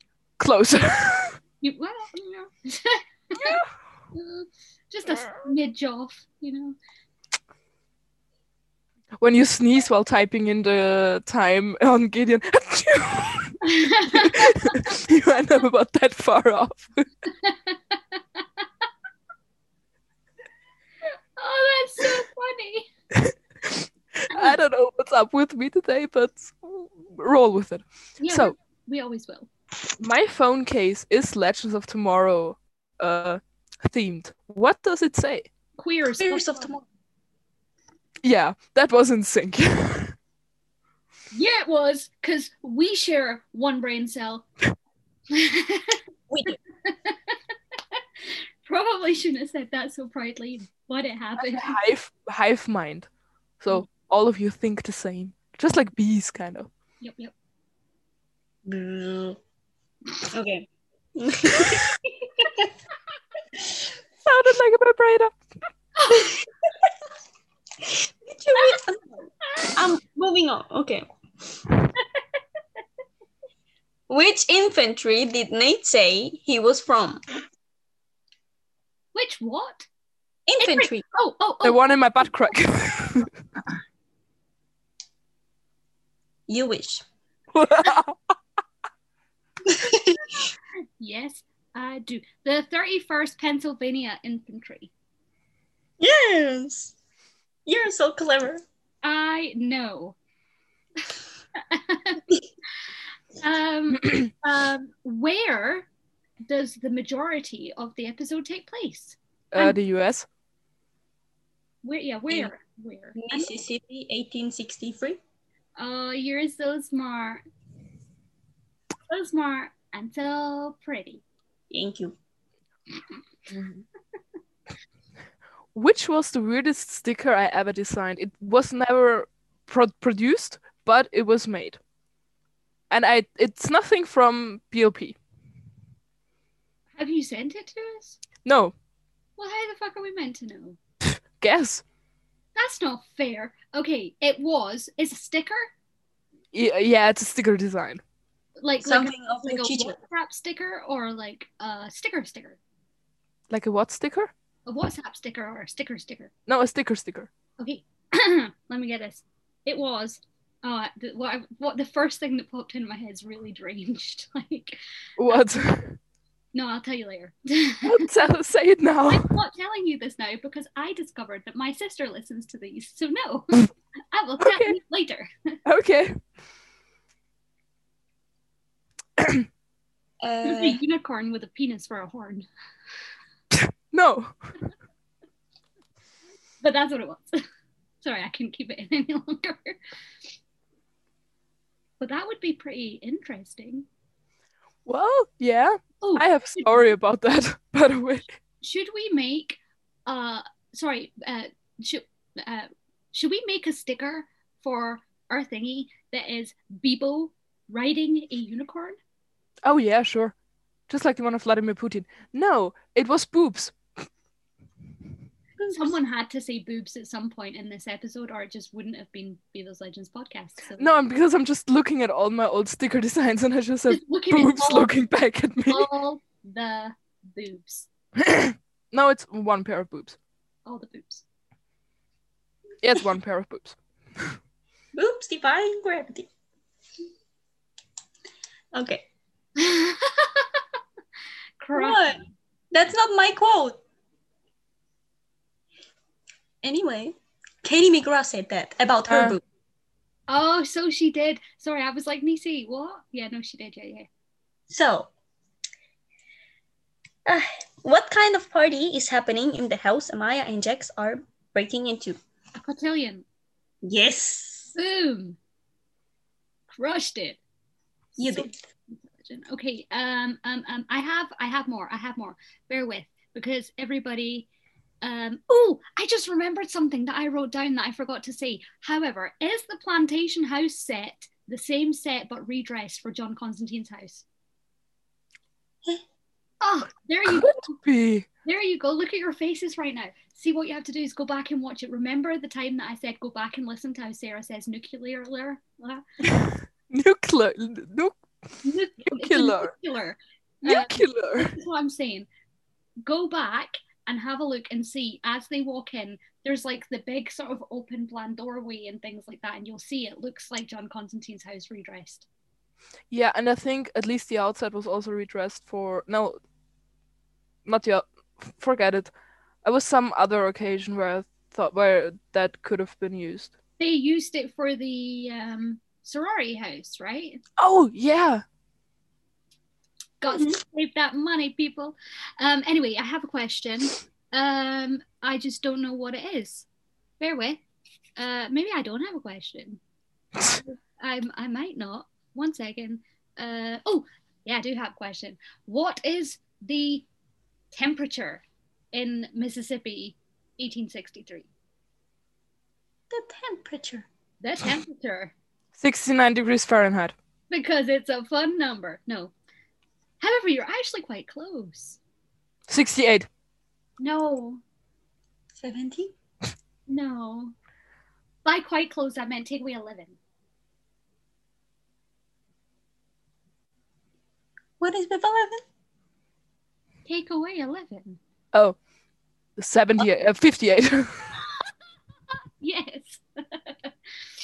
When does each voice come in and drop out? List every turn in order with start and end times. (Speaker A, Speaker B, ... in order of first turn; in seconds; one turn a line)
Speaker A: 0.4-1.4
Speaker B: 1.6-3.6
Speaker A: 3.4-3.7
Speaker B: 4.1-6.8
Speaker A: 5.1-5.4
Speaker A: 9.2-16.9
Speaker B: 13.6-14.9
Speaker B: 17.4-18.0
Speaker B: 21.4-22.9
Speaker A: 23.1-28.5
Speaker B: 28.2-29.5
Speaker A: 30.0-35.5
Speaker B: 35.8-36.7
Speaker C: 36.2-36.8
Speaker A: 38.2-40.1
Speaker B: 41.3-44.5
Speaker B: 45.3-46.0
Speaker C: 46.3-46.6
Speaker B: 46.9-47.4
Speaker B: 48.6-51.8
Speaker A: 51.4-53.1
Speaker A: 53.6-56.7
Speaker B: 57.0-57.3
Speaker C: 58.7-59.4
Speaker C: 60.2-62.7
Speaker A: 64.2-65.3
Speaker B: 66.0-66.4
Speaker C: 66.1-66.4
Speaker C: 67.8-71.1
Speaker B: 68.5-68.8
Speaker B: 69.5-69.8
Speaker C: 74.1-77.2
Speaker B: 79.1-79.9
Speaker C: 80.5-81.0
Speaker B: 80.6-82.5
Speaker A: 81.6-83.3
Speaker C: 86.5-87.0
Speaker A: 87.5-88.2
Speaker C: 89.7-90.2
Speaker B: 91.0-94.9
Speaker C: 96.0-97.0
Speaker C: 97.7-98.6
Speaker B: 99.0-100.2
Speaker B: 101.6-102.2
Speaker B: 103.4-105.9
Speaker B: 106.5-109.8
Speaker A: 109.5-110.3
Speaker B: 111.8-113.5
Speaker C: 113.2-115.2
Speaker B: 115.8-117.4
Speaker B: 119.1-121.2
Speaker C: 121.7-122.2
Speaker A: 123.5-123.8
Speaker A: 125.8-131.8
Speaker A: 132.9-135.2
Speaker B: 137.0-138.2
Speaker A: 138.4-138.7
Speaker B: 139.4-140.8
Speaker A: 141.0-141.8
Speaker B: 142.6-145.7
Speaker A: 146.5-148.0
Speaker B: 148.6-152.6
Speaker C: 148.8-150.0
Speaker A: 153.5-154.3
Speaker B: 154.7-156.3
Speaker A: 156.5-157.3
Speaker B: 157.6-165.6
Speaker A: 165.2-166.0
Speaker B: 166.5-168.1
Speaker A: 167.8-169.3
Speaker B: 169.1-175.6
Speaker A: 174.4-174.8
Speaker A: 175.7-176.2
Speaker A: 179.2-179.5
Speaker C: 180.2-180.8
Speaker B: 180.4-182.5
Speaker A: 183.5-184.3
Speaker B: 186.6-187.4
Speaker B: 188.0-189.8
Speaker B: 192.0-193.9
Speaker A: 194.9-198.3
Speaker B: 196.0-196.9
Speaker B: 198.6-209.0
Speaker A: 209.6-210.3
Speaker A: 210.9-213.8
Speaker C: 215.6-215.9
Speaker B: 215.7-220.9
Speaker A: 220.8-225.9
Speaker B: 223.9-224.9
Speaker B: 225.7-227.9
Speaker A: 228.2-230.2
Speaker B: 230.7-231.2
Speaker A: 232.8-234.3
Speaker C: 234.9-236.3
Speaker C: 238.7-239.1
Speaker B: 239.6-240.6
Speaker B: 241.6-242.3
Speaker C: 241.7-243.8
Speaker C: 246.6-249.4
Speaker A: 249.1-249.4
Speaker B: 250.3-254.1
Speaker C: 254.7-255.1
Speaker C: 257.3-262.2
Speaker B: 262.6-263.2
Speaker C: 263.8-264.7
Speaker B: 264.7-265.4
Speaker B: 266.7-267.4
Speaker C: 268.2-268.5
Speaker B: 268.3-274.5
Speaker B: 275.0-284.2
Speaker B: 286.6-287.8
Speaker A: 287.3-288.3
Speaker B: 288.4-296.0
Speaker A: 296.2-298.2
Speaker B: 298.6-302.3
Speaker A: 299.0-299.7
Speaker A: 300.6-301.6
Speaker B: 303.0-312.3
Speaker A: 313.1-316.4
Speaker A: 317.7-319.1
Speaker A: 319.6-323.5
Speaker B: 323.8-327.4
Speaker A: 327.6-328.4
Speaker B: 330.2-336.7
Speaker C: 330.3-330.6
Speaker B: 337.2-337.6
Speaker B: 338.2-339.8
Speaker B: 341.0-347.1
Speaker B: 347.7-351.5
Speaker C: 353.1-354.1
Speaker B: 354.4-355.3
Speaker A: 355.8-357.1
Speaker B: 357.5-359.3
Speaker B: 360.2-362.0
Speaker A: 362.7-363.3
Speaker B: 364.0-364.6
Speaker C: 365.6-366.1
Speaker B: 366.9-367.5
Speaker B: 368.4-370.2
Speaker C: 374.8-375.6
Speaker B: 377.1-378.2
Speaker A: 379.6-381.3
Speaker B: 382.6-383.9